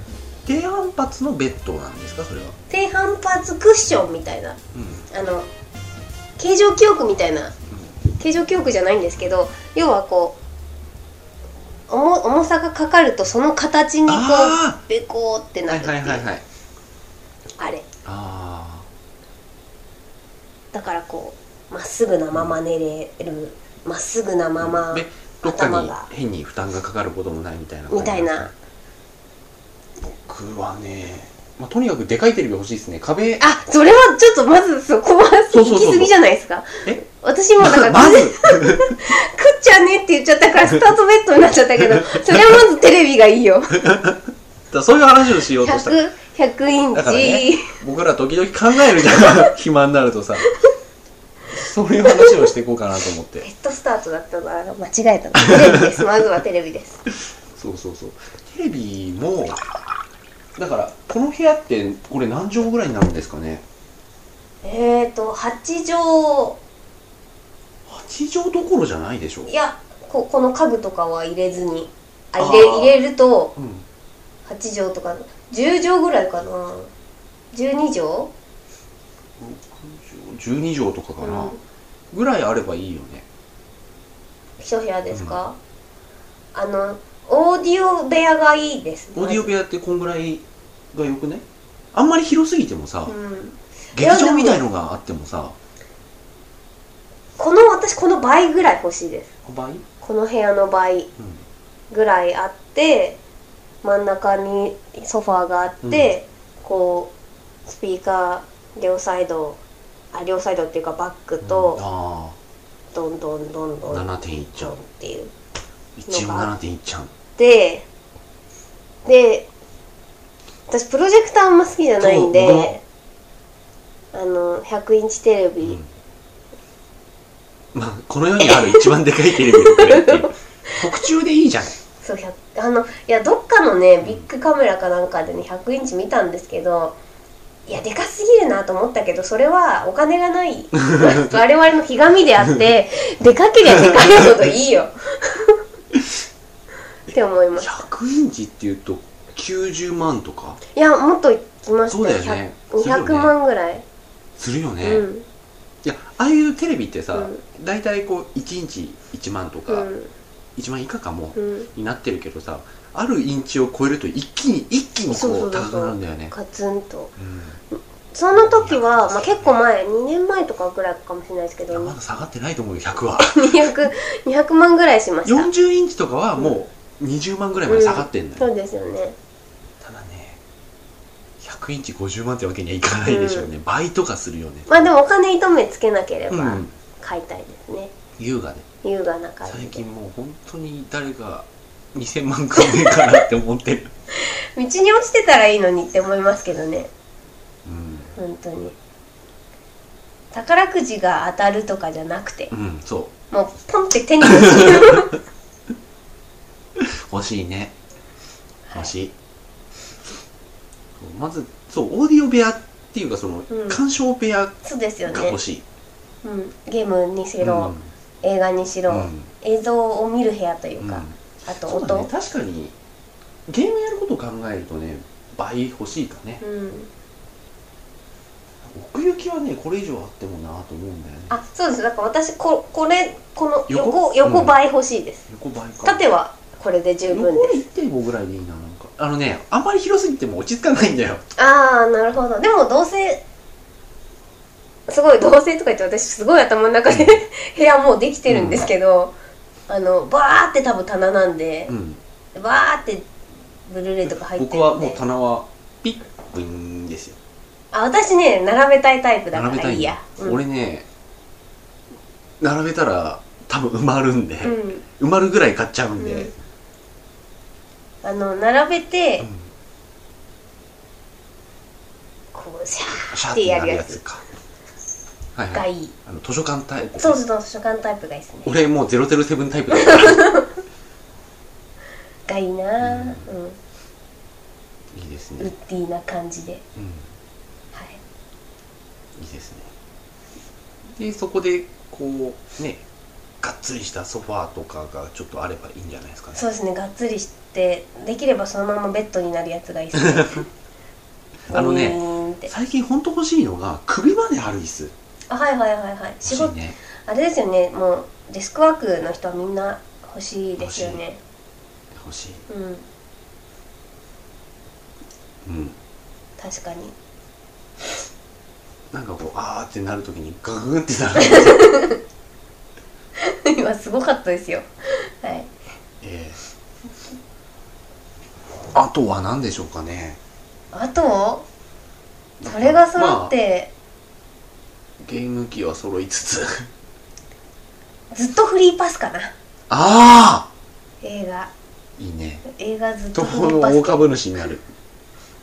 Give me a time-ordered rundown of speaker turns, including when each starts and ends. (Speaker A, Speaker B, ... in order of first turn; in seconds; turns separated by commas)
Speaker A: 0.4-2.6, Speaker B: 2.7-4.6, Speaker A: 4.7-5.0, Speaker B: 5.1-5.5, Speaker B: 6.4-7.5, Speaker B: 8.2-10.4, Speaker B: 11.9-16.2, Speaker A: 14.1-14.8, Speaker A: 15.7-16.4, Speaker B: 17.6-17.9, Speaker A: 18.0-18.9, Speaker B: 20.7-26.1, Speaker A: 22.3-22.6, Speaker A: 24.6-28.5, Speaker B: 27.9-28.5, Speaker A: 30.0-33.4, Speaker B: 33.4-43.8, Speaker A: 35.5-36.1, Speaker A: 37.6-39.0, Speaker A: 41.8-42.6, Speaker A: 43.8-46.0, Speaker B: 45.6-47.8, Speaker A: 46.9-50.5, Speaker B: 49.0-49.5, Speaker A: 51.5-53.5, Speaker B: 52.1-52.5, Speaker B: 53.4-57.0, Speaker A: 55.4-55.9, Speaker A: 57.5-59.6, Speaker A: 60.5-63.6, Speaker B: 64.6-66.6, Speaker A: 67.9-69.5, Speaker B: 69.5-73.5, Speaker A: 72.4-73.0, Speaker A: 73.5-73.8, Speaker B: 74.5-76.9, Speaker B: 77.5-78.3, Speaker A: 79.4-81.6, Speaker B: 81.2-81.6, Speaker A: 82.1-83.2, Speaker B: 84.6-85.6, Speaker A: 85.1-85.4, Speaker B: 86.5-89.5, Speaker A: 89.1-93.1, Speaker B: 93.1-94.6, Speaker A: 93.9-95.5, Speaker B: 97.4-99.3, Speaker A: 99.4-99.8, Speaker B: 100.0-101.1, Speaker A: 101.2-101.4, Speaker B: 101.9-103.2, Speaker B: 103.8-107.1, Speaker A: 105.8-106.1, Speaker B: 107.7-109.6, Speaker B: 110.1-111.8, Speaker A: 111.4-112.4, Speaker B: 112.9-115.3, Speaker A: 113.9-114.8, Speaker A: 116.0-117.1, Speaker B: 116.1-116.5, Speaker B: 117.3-117.8, Speaker B: 119.0-119.5, Speaker B: 120.7-122.8, Speaker A: 122.0-122.7, Speaker B: 124.1-125.8, Speaker A: 125.6-125.9, Speaker A: 127.7-131.8, Speaker B: 128.5-128.8, Speaker B: 129.4-130.8, Speaker B: 132.0-137.0, Speaker B: 137.7-145.6, Speaker A: 140.8-141.2, Speaker B: 147.1-147.8, Speaker A: 147.1-150.6, Speaker B: 150.7-153.8, Speaker A: 151.9-153.3, Speaker A: 154.4-155.1, Speaker B: 154.8-155.2, Speaker A: 155.8-159.9, Speaker B: 157.1-157.4, Speaker B: 159.7-160.1, Speaker A: 160.6-166.3, Speaker B: 161.3-161.7, Speaker B: 165.1-167.1, Speaker A: 167.2-167.6, Speaker B: 167.7-171.9, Speaker A: 168.3-169.6, Speaker A: 171.7-173.7, Speaker B: 173.2-175.5, Speaker A: 175.2-178.5, Speaker B: 177.7-179.2, Speaker A: 179.8-180.4, Speaker A: 181.4-184.8, Speaker B: 183.0-183.5, Speaker B: 184.7-187.9, Speaker A: 186.3-186.7, Speaker A: 188.2-188.7, Speaker B: 188.8-189.8, Speaker A: 189.4-193.9, Speaker B: 194.2-196.9, Speaker A: 197.6-198.1, Speaker B: 198.1-198.8, Speaker B: 200.3-202.5, Speaker A: 202.5-203.1, Speaker B: 203.3-205.1, Speaker A: 204.3-205.0, Speaker A: 206.8-207.7, Speaker A: 208.7-209.1, Speaker A: 211.0-215.6, Speaker B: 213.5-213.8, Speaker B: 214.6-215.4, Speaker B: 216.2-222.1, Speaker A: 217.4-217.9, Speaker A: 218.9-219.3, Speaker A: 220.8-222.7, Speaker A: 223.5-226.4, Speaker B: 226.4-226.9, Speaker A: 228.6-231.4, Speaker B: 231.3-235.3, Speaker A: 233.7-234.6, Speaker A: 235.3-236.0, Speaker B: 235.8-237.6, Speaker A: 237.1-241.2, Speaker B: 241.4-243.2, Speaker B: 244.9-249.1, Speaker A: 246.9-247.2, Speaker A: 248.3-248.7, Speaker B: 249.7-251.7, Speaker A: 251.7-252.0, Speaker B: 252.3-253.1, Speaker B: 253.7-255.0, Speaker A: 254.1-257.2, Speaker B: 257.7-260.4, Speaker A: 259.3-260.9, Speaker A: 262.4-266.3, Speaker B: 264.4-264.8, Speaker B: 266.0-266.3, Speaker B: 268.0-269.3, Speaker A: 269.2-269.5, Speaker B: 272.3-274.0, Speaker A: 273.1-274.2, Speaker A: 275.3-277.2, Speaker B: 275.5-275.9, Speaker B: 276.9-278.5, Speaker A: 278.4-280.3, Speaker B: 279.7-280.5, Speaker B: 282.3-283.6, Speaker A: 282.8-283.3, Speaker A: 284.9-285.5, Speaker B: 285.4-286.6, Speaker A: 286.8-287.1, Speaker B: 287.7-288.0, Speaker A: 289.1-289.7, Speaker A: 290.9-292.8, Speaker A: 293.4-296.4, Speaker B: 296.3-300.5, Speaker A: 300.0-300.4, Speaker B: 301.5-302.5, Speaker A: 301.5-304.9, Speaker B: 305.3-311.2, Speaker A: 306.2-306.8, Speaker A: 310.6-311.0, Speaker A: 311.9-312.4, Speaker B: 312.5-312.9, Speaker A: 315.4-315.8, Speaker B: 316.4-316.9, Speaker A: 318.9-321.8, Speaker B: 321.2-322.0, Speaker B: 323.2-325.5, Speaker A: 326.0-326.4, Speaker A: 328.7-330.2, Speaker B: 330.7-331.4, Speaker A: 332.4-333.3, Speaker B: 332.4-333.7, Speaker A: 335.0-336.7, Speaker B: 338.1-339.3, Speaker A: 339.7-340.5, Speaker B: 341.0-341.5, Speaker A: 342.0-342.4, Speaker B: 342.4-344.1, Speaker A: 343.1-344.6